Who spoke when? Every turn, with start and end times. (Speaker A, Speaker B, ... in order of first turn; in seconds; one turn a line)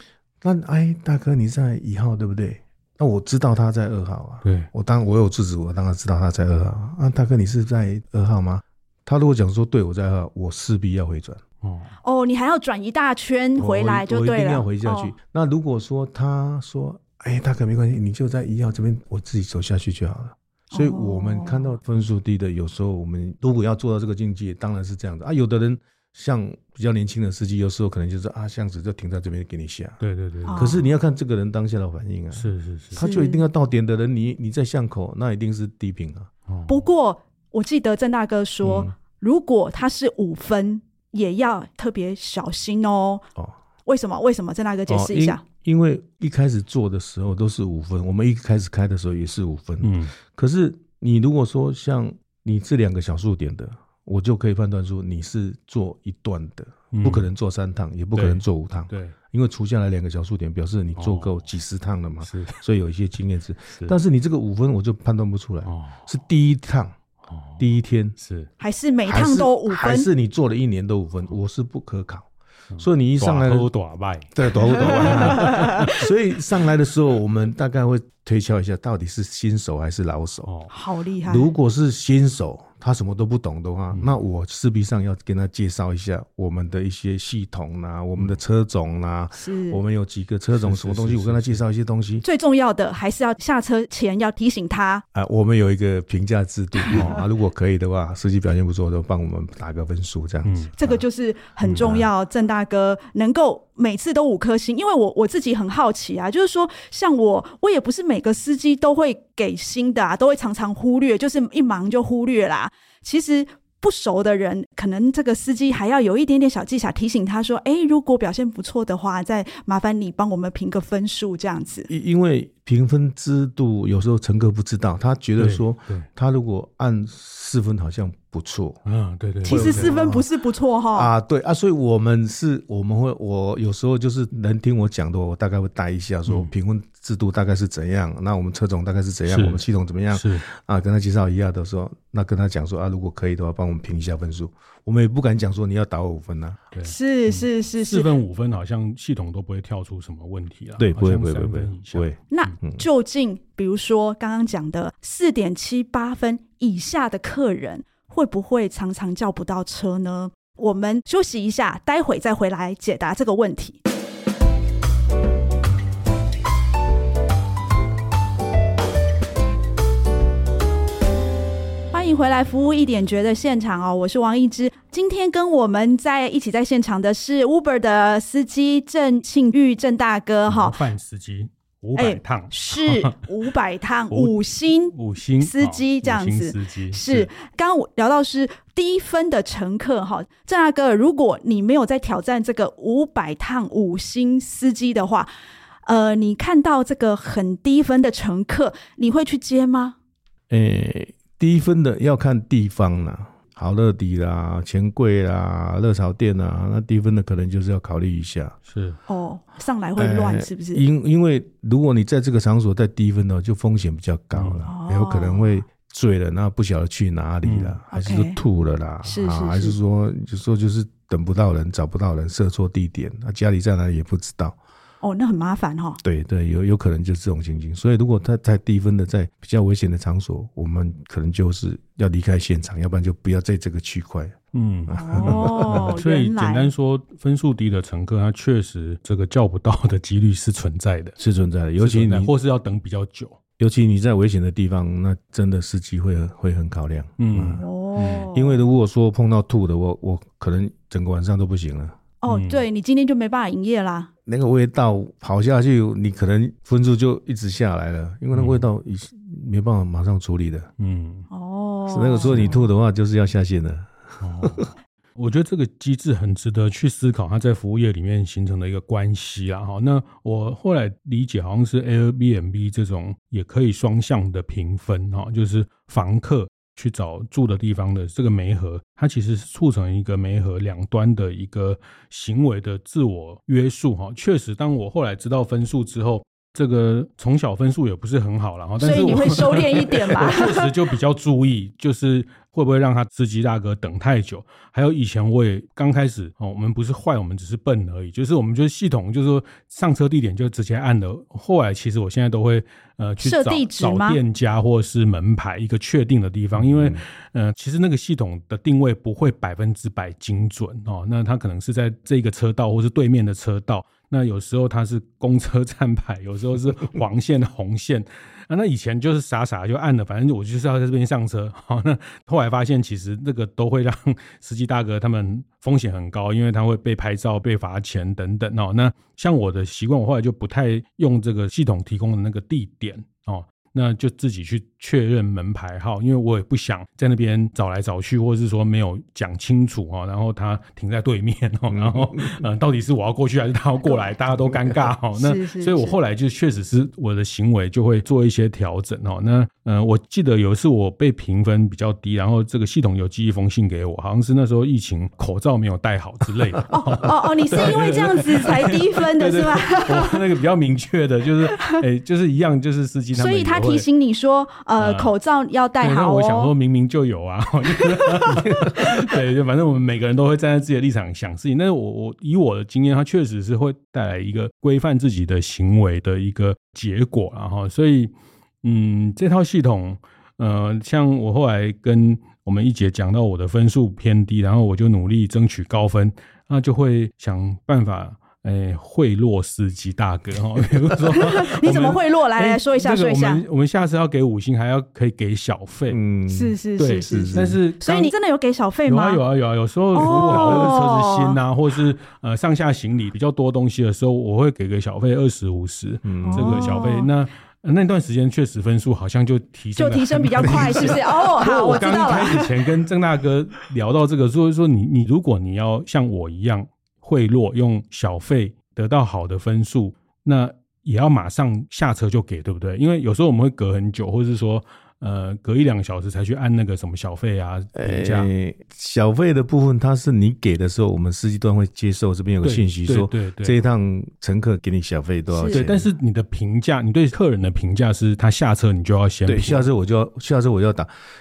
Speaker A: 0.4-11.4
Speaker B: 4.4-4.7
Speaker B: 11.6-11.9
Speaker C: 12.0-15.1
Speaker A: 13.6-36.3
Speaker C: 20.7-21.8
Speaker B: 30.0-30.7
Speaker C: 30.5-30.9
Speaker B: 32.3-33.0
Speaker C: 33.0-33.5
Speaker B: 36.5-36.9
Speaker C: 36.7-43.2
Speaker A: 38.6-38.9
Speaker C: 43.9-45.4
Speaker A: 44.9-67.0
Speaker B: 49.8-50.1
Speaker B: 56.9-57.3
Speaker B: 58.1-59.2
Speaker B: 61.0-61.4
Speaker B: 62.2-62.6
Speaker B: 65.7-66.0
Speaker B: 67.3-67.7
Speaker A: 67.6-68.2
Speaker B: 68.2-68.5
Speaker C: 68.6-70.1
Speaker A: 69.1-72.3
Speaker B: 72.7-76.1
Speaker A: 72.8-73.7
Speaker A: 74.3-80.5
Speaker C: 75.2-75.9
Speaker B: 80.5-80.7
Speaker C: 80.7-81.5
Speaker A: 81.2-92.2
Speaker C: 89.3-89.8
Speaker B: 90.5-91.6
Speaker C: 92.2-95.0
Speaker A: 95.2-101.0
Speaker B: 96.9-97.2
Speaker B: 100.4-100.7
Speaker C: 100.8-121.9
Speaker A: 101.7-102.1
Speaker B: 101.7-102.0
Speaker A: 121.9-128.8
Speaker B: 125.4-126.1
Speaker B: 128.9-129.9
Speaker A: 129.4-130.3
Speaker C: 129.4-131.1
Speaker A: 130.9-146.6
Speaker B: 136.3-136.5
Speaker B: 139.3-140.4
Speaker B: 146.7-152.5
Speaker C: 146.8-148.1
Speaker A: 150.8-152.8
Speaker C: 152.3-163.8
Speaker C: 171.9-180.8
Speaker B: 180.5-183.3
Speaker C: 182.0-195.3
Speaker B: 184.1-187.3
Speaker C: 195.9-200.0
Speaker A: 200.5-208.6
Speaker B: 208.7-209.0
Speaker C: 209.1-210.8
Speaker A: 210.0-224.6
Speaker B: 214.3-214.7
Speaker C: 214.7-215.6
Speaker B: 217.4-217.8
Speaker C: 217.9-218.4
Speaker C: 219.0-219.8
Speaker C: 225.0-226.0
Speaker A: 226.0-235.9
Speaker B: 234.5-241.2
Speaker C: 234.9-236.7
Speaker A: 241.2-242.3
Speaker B: 241.8-243.4
Speaker A: 243.6-247.6
Speaker B: 247.2-248.3
Speaker C: 247.6-248.6
Speaker A: 248.3-252.0
Speaker C: 252.2-254.1
Speaker B: 252.3-252.6
Speaker A: 254.3-260.7
Speaker B: 258.3-258.7
Speaker B: 260.8-261.3
Speaker C: 261.3-262.6
Speaker A: 261.9-264.6
Speaker B: 262.2-262.6
Speaker B: 264.2-363.9
Speaker C: 288.8-290.7
Speaker C: 303.2-304.2
Speaker A: 306.6-307.0
Speaker A: 341.7-342.4
Speaker C: 345.2-346.0
Speaker C: 356.7-360.2
Speaker C: 361.6-361.8
Speaker C: 363.1-366.5
Speaker B: 364.8-365.1
Speaker B: 365.8-396.0
Speaker C: 367.9-368.9
Speaker C: 391.1-393.4
Speaker A: 395.9-397.6
Speaker C: 396.3-399.2
Speaker B: 396.8-398.1
Speaker B: 398.9-428.3
Speaker C: 399.9-401.4
Speaker A: 406.1-406.8
Speaker C: 406.2-407.1
Speaker C: 409.8-412.5
Speaker A: 410.5-410.9
Speaker A: 427.8-435.9
Speaker B: 432.4-433.6
Speaker C: 435.3-435.6
Speaker B: 435.5-439.7
Speaker A: 439.3-440.9